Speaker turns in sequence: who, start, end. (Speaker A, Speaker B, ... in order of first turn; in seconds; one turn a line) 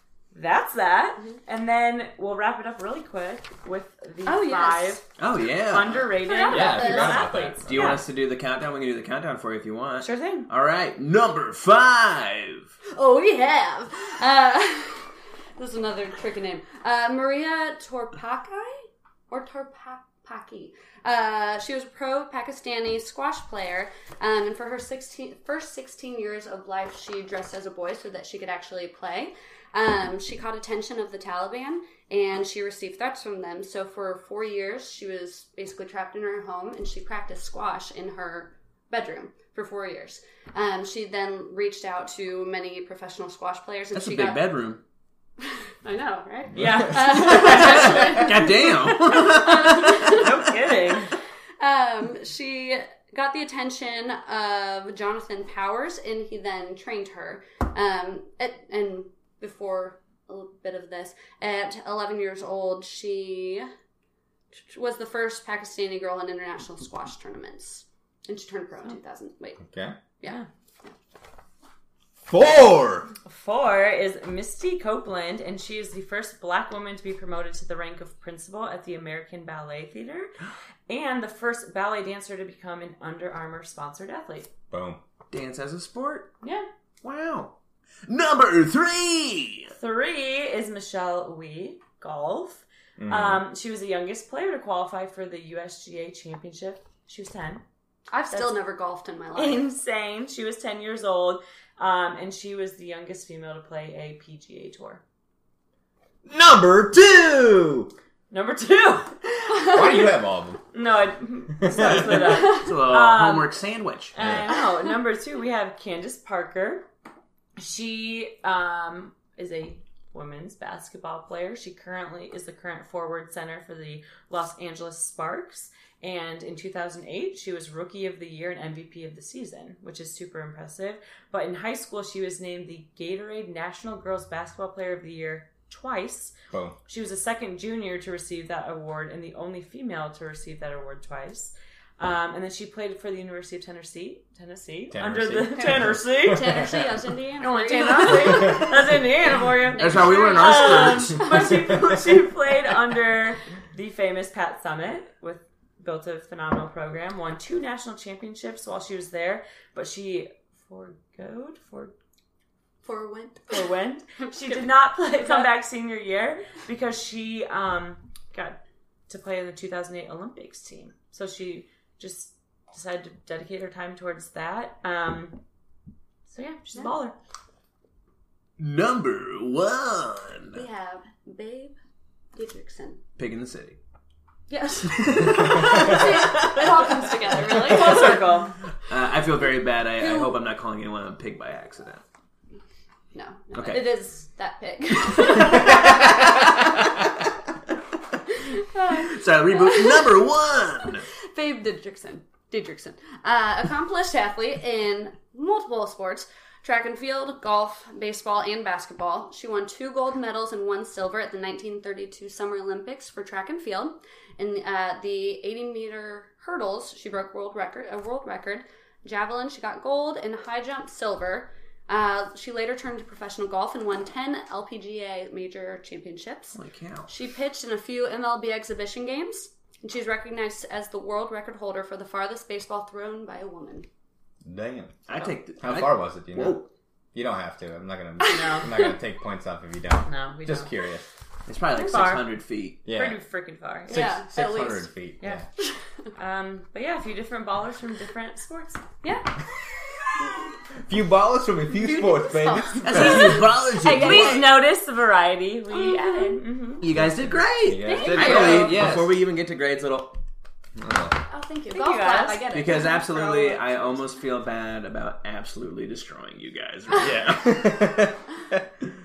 Speaker A: 0.3-5.1
Speaker B: 4.2-5.0
Speaker C: 5.2-6.1
Speaker A: 5.6-8.0
Speaker B: 6.2-7.4
Speaker D: 6.5-8.0
Speaker C: 7.7-12.7
Speaker A: 10.0-10.5
Speaker B: 12.9-44.4
Speaker C: 43.9-44.8
Speaker B: 45.4-50.6
Speaker D: 46.5-46.9
Speaker A: 46.5-48.3
Speaker C: 47.2-50.3
Speaker A: 49.8-51.1
Speaker B: 51.6-63.7
Speaker B: 64.5-69.6
Speaker D: 69.6-70.0
Speaker B: 70.2-70.9
Speaker D: 72.3-73.1
Speaker A: 73.2-80.3
Speaker A: 80.9-84.5
Speaker D: 84.7-85.0
Speaker C: 85.3-86.3
Speaker A: 86.4-86.7
Speaker C: 87.0-87.5
Speaker C: 88.1-89.7
Speaker A: 89.7-97.6
Speaker D: 93.0-93.4
Speaker B: 98.1-99.6
Speaker A: 99.3-105.0
Speaker D: 106.2-107.9
Speaker A: 108.3-109.8
Speaker D: 109.5-110.6
Speaker A: 110.7-113.6
Speaker D: 111.6-112.1
Speaker C: 111.8-114.1
Speaker A: 114.1-116.9
Speaker D: 114.2-114.5
Speaker A: 117.6-136.3
Speaker D: 136.5-136.8
Speaker A: 136.9-146.7
Speaker D: 144.9-146.9
Speaker B: 146.2-148.7
Speaker A: 147.4-161.9
Speaker C: 149.8-151.5
Speaker B: 149.8-152.1
Speaker B: 162.8-163.7
Speaker A: 163.5-175.4
Speaker B: 164.2-164.7
Speaker B: 165.2-165.5
Speaker A: 176.3-177.1
Speaker C: 178.6-180.6
Speaker B: 180.5-181.8
Speaker B: 182.3-183.0
Speaker C: 183.2-183.8
Speaker B: 184.5-188.4
Speaker C: 184.9-186.3
Speaker A: 186.2-186.8
Speaker A: 187.4-188.6
Speaker C: 188.9-192.0
Speaker B: 190.0-190.4
Speaker B: 193.1-197.0
Speaker C: 193.5-193.9
Speaker C: 195.4-196.0
Speaker B: 198.5-200.2
Speaker C: 198.9-201.0
Speaker B: 201.3-233.9
Speaker C: 226.5-227.1
Speaker D: 234.4-235.0
Speaker C: 235.1-236.7
Speaker D: 235.6-236.6
Speaker D: 237.1-241.1
Speaker B: 238.2-238.9
Speaker A: 238.3-238.8
Speaker A: 240.1-240.7
Speaker C: 241.5-242.8
Speaker A: 241.7-244.1
Speaker D: 242.8-243.2
Speaker D: 243.9-245.5
Speaker B: 243.9-244.9
Speaker A: 246.2-248.8
Speaker B: 249.0-249.4
Speaker D: 250.8-253.4
Speaker B: 251.7-254.5
Speaker C: 252.8-254.6
Speaker A: 253.8-256.9
Speaker B: 255.7-256.4
Speaker C: 256.8-260.2
Speaker D: 257.0-259.2
Speaker A: 257.8-258.8
Speaker B: 257.9-258.7
Speaker D: 260.8-261.2
Speaker B: 261.3-264.1
Speaker A: 261.7-262.5
Speaker C: 262.5-267.8
Speaker D: 267.0-268.6